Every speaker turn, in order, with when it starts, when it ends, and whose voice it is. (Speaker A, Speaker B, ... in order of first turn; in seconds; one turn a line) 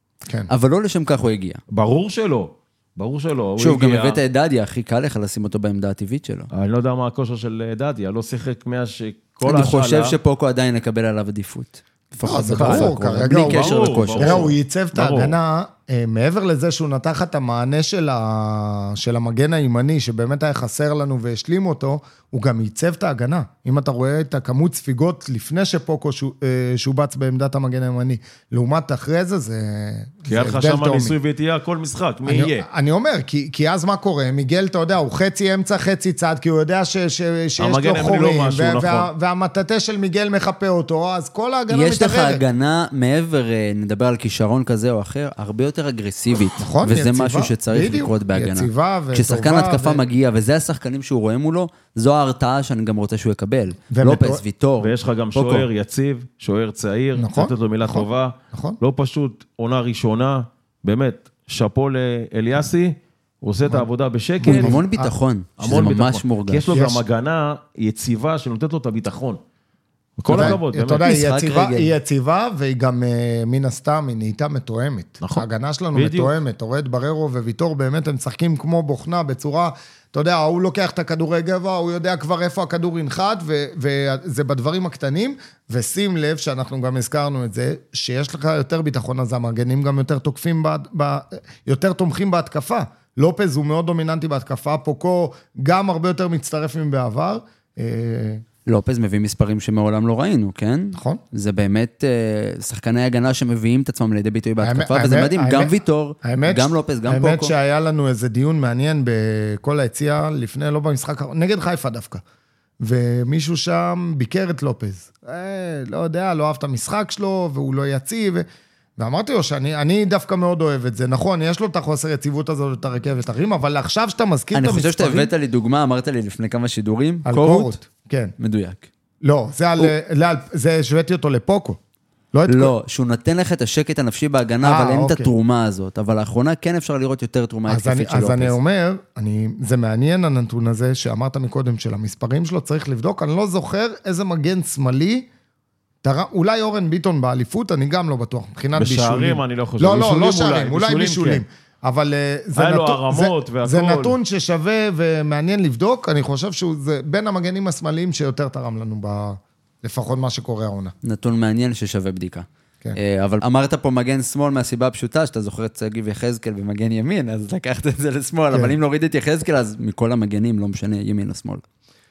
Speaker A: 0.5-1.6
Speaker B: 1.7-4.2
Speaker A: 3.6-6.5
Speaker B: 6.5-10.2
Speaker A: 9.4-14.5
Speaker C: 12.2-31.2
Speaker B: 12.6-15.3
Speaker B: 30.3-32.7
Speaker C: 32.3-42.4
Speaker B: 37.6-39.1
Speaker A: 41.7-55.7
Speaker C: 46.6-50.0
Speaker C: 53.9-54.4
Speaker B: 54.8-64.8
Speaker C: 57.1-58.8
Speaker C: 64.4-65.1
Speaker A: 64.5-66.7
Speaker B: 65.6-69.4
Speaker C: 66.7-67.0
Speaker B: 70.2-71.0
Speaker C: 70.3-98.4
Speaker A: 70.3-71.9
Speaker B: 75.2-76.3
Speaker A: 98.7-107.5
Speaker C: 101.0-101.2
Speaker C: 104.6-112.2
Speaker C: 112.8-118.5
Speaker C: 119.0-125.3
Speaker A: 124.5-127.8
Speaker C: 127.2-128.3
Speaker A: 128.4-128.9
Speaker C: 129.2-131.8
Speaker C: 132.3-132.7
Speaker A: 132.5-138.6
Speaker C: 134.6-135.3
Speaker C: 137.7-145.3
Speaker C: 146.0-160.9
Speaker B: 148.8-151.4
Speaker B: 152.6-154.2
Speaker A: 161.0-171.6